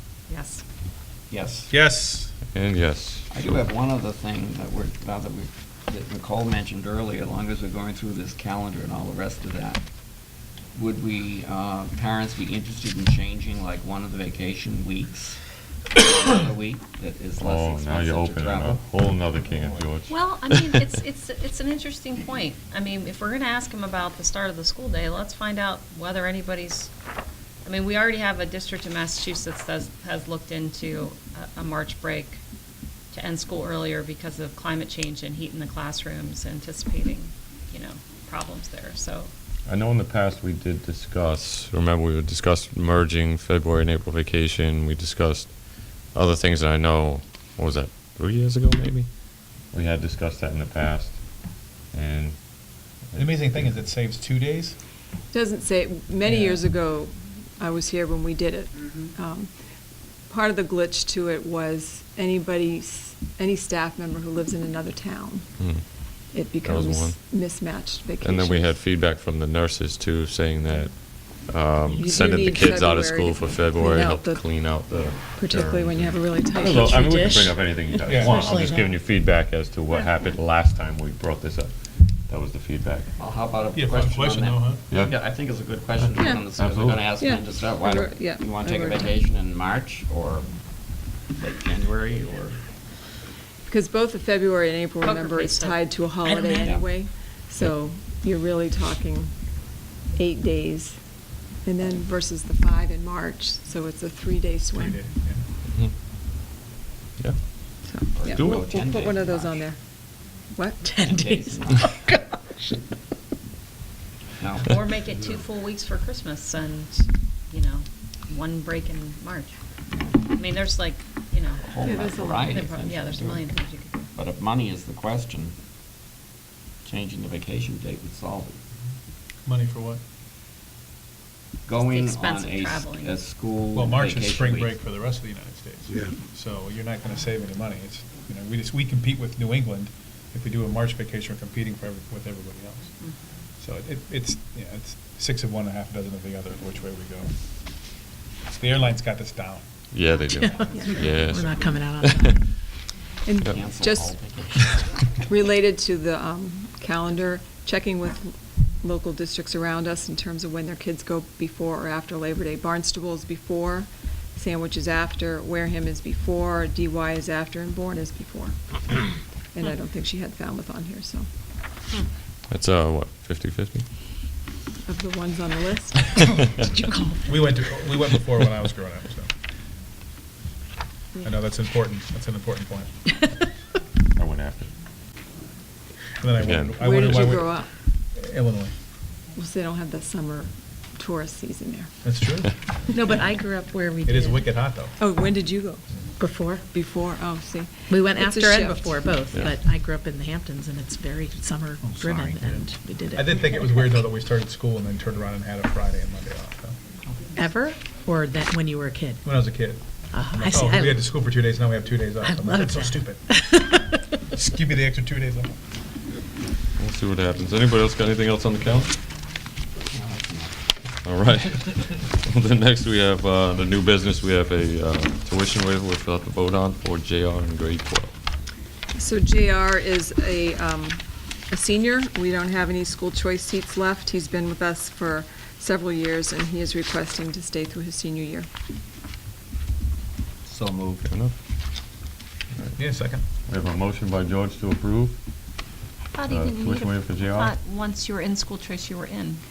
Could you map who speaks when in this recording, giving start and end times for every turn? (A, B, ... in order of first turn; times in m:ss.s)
0:00.3-0:00.6 A
0:01.3-0:01.7 B
0:01.7-0:02.4 C
0:02.5-0:03.3 D
0:03.3-0:09.8 B
0:10.7-0:15.4 B
0:15.9-0:18.9 B
0:17.4-0:20.7 D
0:19.4-0:19.8 B
0:20.1-0:26.9 A
0:27.6-0:32.4 A
0:33.1-0:39.3 A
0:39.7-0:49.1 D
0:49.7-0:52.5 D
0:53.0-0:53.7 D
0:53.1-0:54.8 C
0:55.3-0:59.5 E
0:56.2-0:56.6 C
1:00.3-1:05.5 E
1:06.3-1:08.8 E
1:06.6-1:07.2 D
1:08.2-1:21.7 D
1:12.0-1:14.6 E
1:15.3-1:17.2 E
1:16.5-1:19.0 F
1:18.0-1:18.5 C
1:22.3-1:23.1 D
1:23.2-1:32.7 B
1:23.7-1:24.8 C
1:24.9-1:25.2 D
1:26.0-1:27.1 D
1:26.1-1:26.4 E
1:27.2-1:29.2 E
1:33.7-1:39.3 E
1:35.0-1:36.5 A
1:36.2-1:36.7 F
1:36.6-1:36.9 B
1:40.1-1:41.0 E
1:41.6-1:45.0 E
1:44.7-1:45.5 C
1:47.8-1:50.9 E
1:48.1-1:49.6 B
1:50.8-1:52.8 F
1:51.0-1:52.0 B
1:54.4-1:54.9 B
1:54.6-1:59.6 A
1:59.9-2:00.2 B
2:00.3-2:04.1 A
2:01.6-2:03.6 B
2:01.8-2:02.6 E
2:04.1-2:05.5 B
2:06.8-2:08.6 B
2:09.4-2:10.0 C
2:11.6-2:14.8 B
2:11.8-2:13.2 A
2:13.7-2:22.9 C
2:23.6-2:27.3 C
2:28.5-2:29.6 C
2:29.9-2:32.3 D
2:30.3-2:32.4 F
2:30.7-2:31.1 E
2:33.2-2:34.2 E
2:33.5-2:34.8 B
2:35.2-2:51.2 E
2:52.5-2:53.8 D
2:54.8-2:56.6 E
2:56.5-2:57.4 F
2:57.2-2:59.3 C
3:01.2-3:02.9 C
3:03.1-3:03.3 F
3:04.2-3:04.7 D
3:06.2-3:07.6 C
3:06.5-3:07.2 D
3:06.8-3:07.7 E
3:08.1-3:08.7 C
3:09.3-3:12.0 E
3:12.0-3:12.5 C
3:12.9-3:14.4 F
3:14.0-3:15.0 C
3:15.0-3:15.8 E
3:16.2-3:16.6 F
3:16.7-3:19.1 E
3:17.9-3:23.9 F
3:22.0-3:22.3 B
3:22.5-3:26.8 C
3:27.3-3:29.2 F
3:29.2-3:33.4 C
3:29.9-3:31.1 F
3:32.2-3:34.3 F
3:34.3-3:35.6 C
3:36.8-3:38.9 D
3:39.9-3:40.6 B
3:41.0-3:48.1 D
3:48.9-3:58.5 E
4:00.4-4:01.1 B
4:01.1-4:01.3 D
4:02.7-4:03.2 C
4:03.4-4:05.2 D
4:06.1-4:09.4 A
4:06.2-4:07.5 D